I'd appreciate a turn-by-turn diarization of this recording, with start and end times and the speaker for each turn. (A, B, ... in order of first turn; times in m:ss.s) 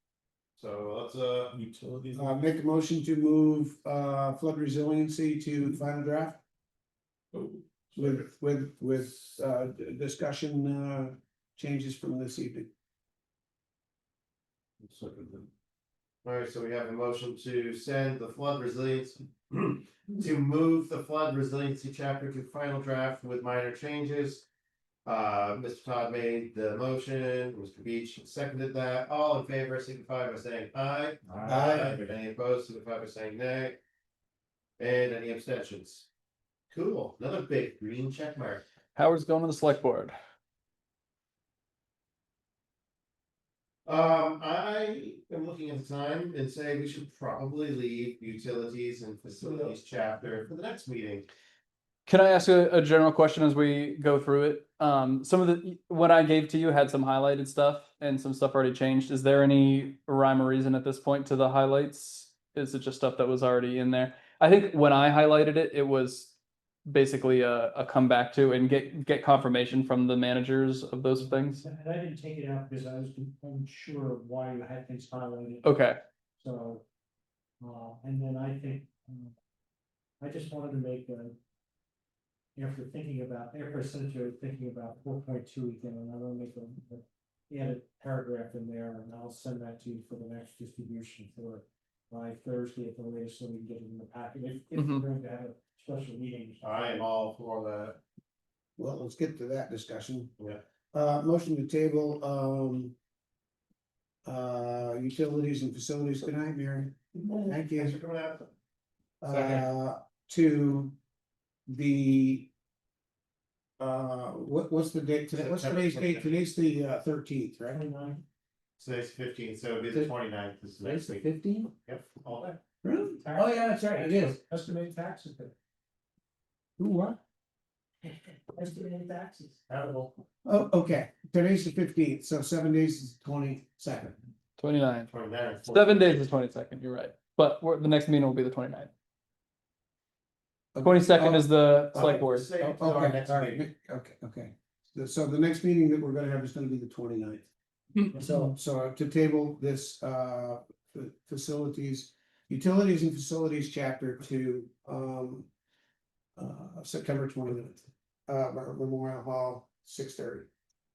0:00.6-0:01.6 A
0:01.5-0:02.4 B
0:02.1-0:06.4 C
0:07.3-0:08.2 B
0:08.0-0:12.7 C
0:14.8-0:15.5 B
0:16.2-0:24.4 A
0:25.0-0:33.8 A
0:31.2-0:32.0 B
0:31.4-0:32.0 C
0:34.8-0:36.1 A
0:36.7-0:38.6 A
0:39.0-0:40.1 D
0:43.9-0:51.3 A
0:52.1-1:06.4 D
1:06.9-1:11.6 D
1:11.2-1:15.7 E
1:15.6-1:16.0 D
1:16.4-1:16.8 E
1:17.6-1:19.3 E
1:20.2-1:21.4 E
1:22.6-1:37.0 E
1:34.8-1:35.0 D
1:36.6-1:38.0 A
1:38.8-1:40.3 C
1:40.9-1:43.0 C
1:44.2-1:48.0 C
1:47.4-1:48.5 A
1:49.2-1:51.0 C
1:49.3-1:49.6 A
1:51.7-1:52.5 C
1:53.8-1:57.8 C
1:55.3-1:56.4 A
1:57.7-1:58.2 E
1:58.8-2:01.3 A
2:00.8-2:01.7 C
2:01.9-2:02.6 A
2:02.8-2:04.4 C
2:03.2-2:05.5 E
2:06.8-2:07.2 C
2:08.0-2:09.6 E
2:09.7-2:10.1 A
2:10.4-2:14.2 C
2:14.6-2:15.1 D
2:15.1-2:16.2 A
2:15.6-2:18.9 D
2:20.8-2:21.5 C
2:20.8-2:22.5 D
2:21.9-2:23.6 A
2:22.6-2:27.5 C
2:28.1-2:35.5 C
2:28.1-2:28.4 E
2:36.4-2:40.5 C